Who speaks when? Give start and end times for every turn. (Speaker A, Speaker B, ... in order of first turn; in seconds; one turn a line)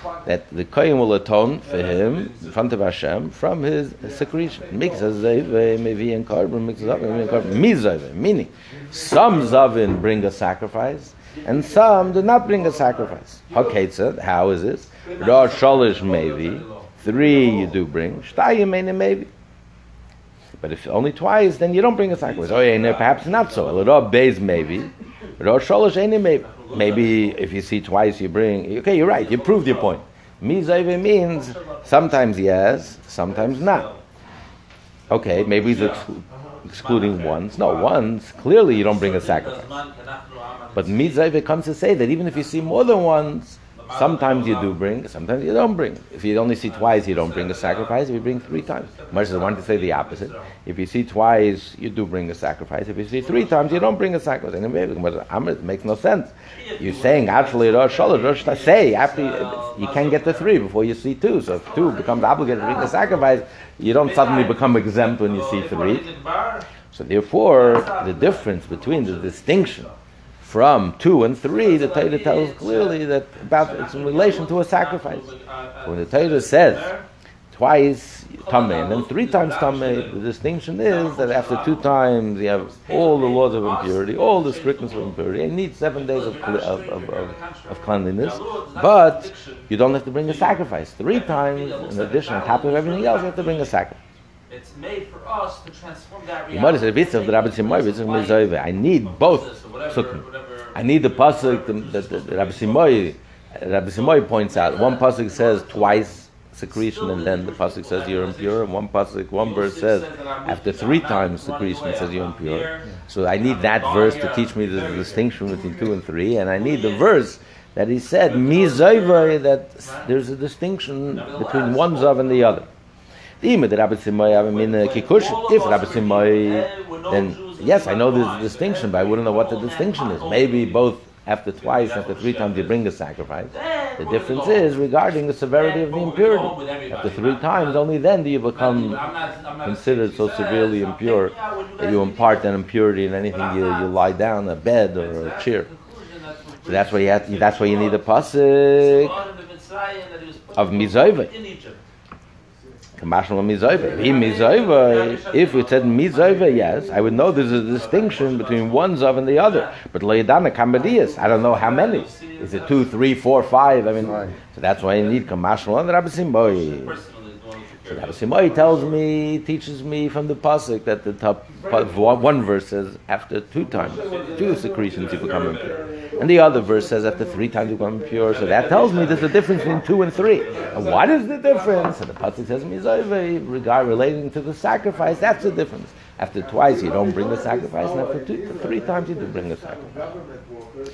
Speaker A: 0.2-19.3
Speaker B: 1.8-2.5
Speaker A: 20.6-33.9
Speaker B: 22.4-23.2
Speaker B: 26.5-27.3
Speaker B: 29.1-29.9
Speaker B: 31.5-31.9
Speaker B: 33.4-34.0
Speaker A: 35.1-39.7
Speaker B: 35.3-37.9
Speaker B: 38.8-41.2
Speaker A: 40.7-66.0
Speaker B: 43.8-44.7
Speaker B: 46.7-48.0
Speaker B: 48.9-50.5
Speaker B: 53.3-53.8
Speaker B: 56.6-60.5
Speaker B: 61.8-63.1
Speaker B: 64.0-66.7
Speaker A: 66.9-69.9
Speaker B: 67.5-69.7
Speaker A: 70.4-75.3
Speaker B: 71.6-77.0
Speaker A: 75.8-76.9
Speaker A: 77.5-94.0
Speaker B: 78.4-80.2
Speaker B: 80.8-81.9
Speaker B: 82.8-85.2
Speaker B: 85.9-89.7
Speaker B: 90.2-90.5
Speaker B: 91.1-93.7
Speaker B: 94.5-98.5
Speaker A: 96.5-100.2
Speaker B: 99.0-103.0
Speaker A: 100.7-122.7
Speaker B: 104.1-105.8
Speaker B: 106.8-108.7
Speaker B: 109.4-115.2
Speaker B: 116.5-117.1
Speaker B: 118.2-120.1
Speaker B: 121.1-122.5
Speaker A: 123.4-139.0
Speaker B: 124.5-130.8
Speaker B: 131.6-132.7
Speaker B: 133.5-134.7
Speaker B: 135.6-137.8
Speaker B: 138.5-142.5
Speaker A: 139.6-145.7
Speaker B: 143.3-143.9
Speaker B: 144.9-148.1
Speaker A: 146.7-149.1
Speaker B: 148.7-151.8
Speaker A: 150.5-151.3
Speaker A: 153.0-166.9
Speaker B: 154.0-156.4
Speaker B: 157.8-158.8
Speaker B: 159.4-159.7
Speaker B: 161.6-162.9
Speaker B: 166.6-168.2
Speaker A: 167.9-190.1
Speaker B: 174.1-175.7
Speaker B: 178.5-179.4
Speaker B: 180.4-180.8